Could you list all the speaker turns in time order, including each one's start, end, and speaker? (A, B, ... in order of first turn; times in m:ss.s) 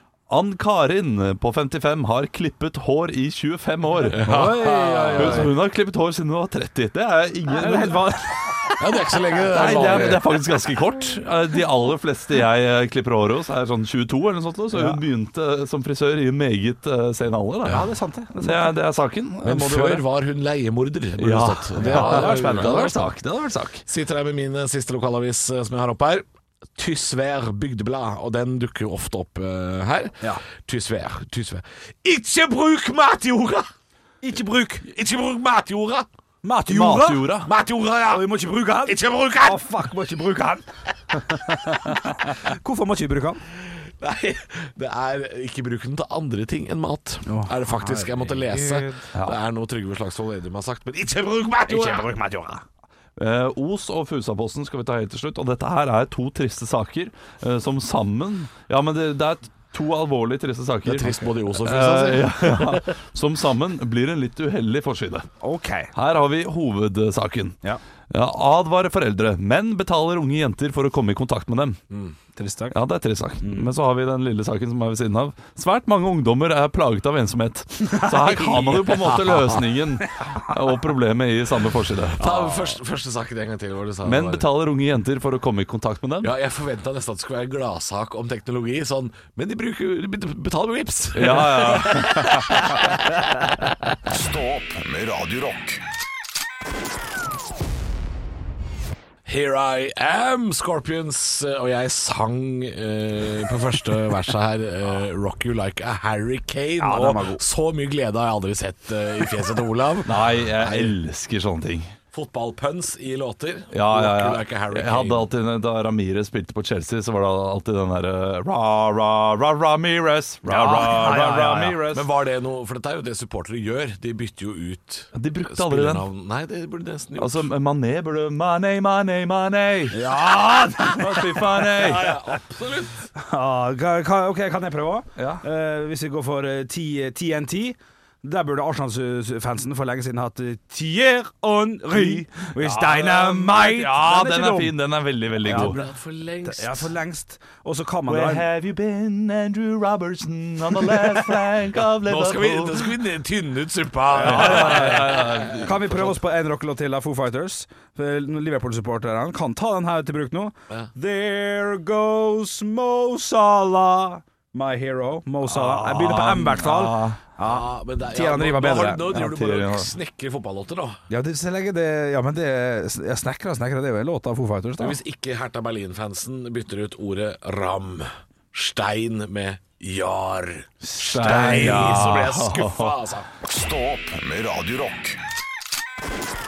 0:00.3-0:04.6 A
0:04.1-0:05.5 B
0:04.2-0:05.5 C
0:05.1-0:08.2 A
0:07.5-0:08.8 C
0:08.8-0:10.3 B
0:09.5-0:17.9 A
0:14.7-0:15.0 C
0:17.7-0:18.8 C
0:18.4-0:20.0 A
0:19.4-0:23.1 B
0:21.2-0:23.8 A
0:21.8-0:22.9 C
0:23.9-0:33.7 B
0:34.2-0:34.9 C
0:34.8-0:36.1 B
0:36.4-0:37.3 C
0:36.7-0:37.5 A
0:37.4-0:39.6 B
0:38.1-0:40.6 C
0:41.2-0:43.4 C
0:43.6-0:52.1 B
0:47.3-0:49.1 C
0:51.7-0:52.6 C
0:53.2-1:05.3 A
1:00.8-1:02.8 B
1:05.4-1:05.9 C
1:06.0-1:07.6 A
1:08.1-1:11.8 A
1:11.9-1:12.2 B
1:12.4-1:12.8 C
1:12.7-1:22.3 A
1:13.4-1:13.7 C
1:17.9-1:18.9 C
1:19.2-1:19.6 B
1:22.2-1:24.5 B
1:22.2-1:22.7 C
1:24.0-1:26.3 A
1:26.2-1:33.1 B
1:31.2-1:32.6 A
1:34.1-1:35.8 D
1:39.2-1:51.0 B
1:46.8-1:47.4 C
1:50.1-1:51.9 A
1:52.1-1:55.3 B
1:53.7-2:02.1 A
2:00.5-2:01.8 C
2:01.8-2:07.5 B
2:05.2-2:06.0 A
2:07.2-2:10.1 A
2:09.9-2:11.9 C
2:10.8-2:12.2 A
2:11.8-2:13.0 B
2:13.2-2:24.8 C
2:15.2-2:15.4 A
2:21.9-2:25.8 A
2:25.4-2:26.9 B
2:25.4-2:25.8 C
2:26.4-2:28.5 C
2:28.1-2:33.0 A
2:30.9-2:31.2 B
2:31.8-2:36.1 B
2:34.1-2:49.2 C
2:34.2-2:36.0 A
2:45.5-2:47.2 A
2:47.4-2:51.0 B
2:49.1-2:49.9 A
2:51.1-2:55.0 C
2:54.8-3:03.3 B
3:00.8-3:02.2 C
3:01.0-3:03.0 A
3:03.4-3:05.2 D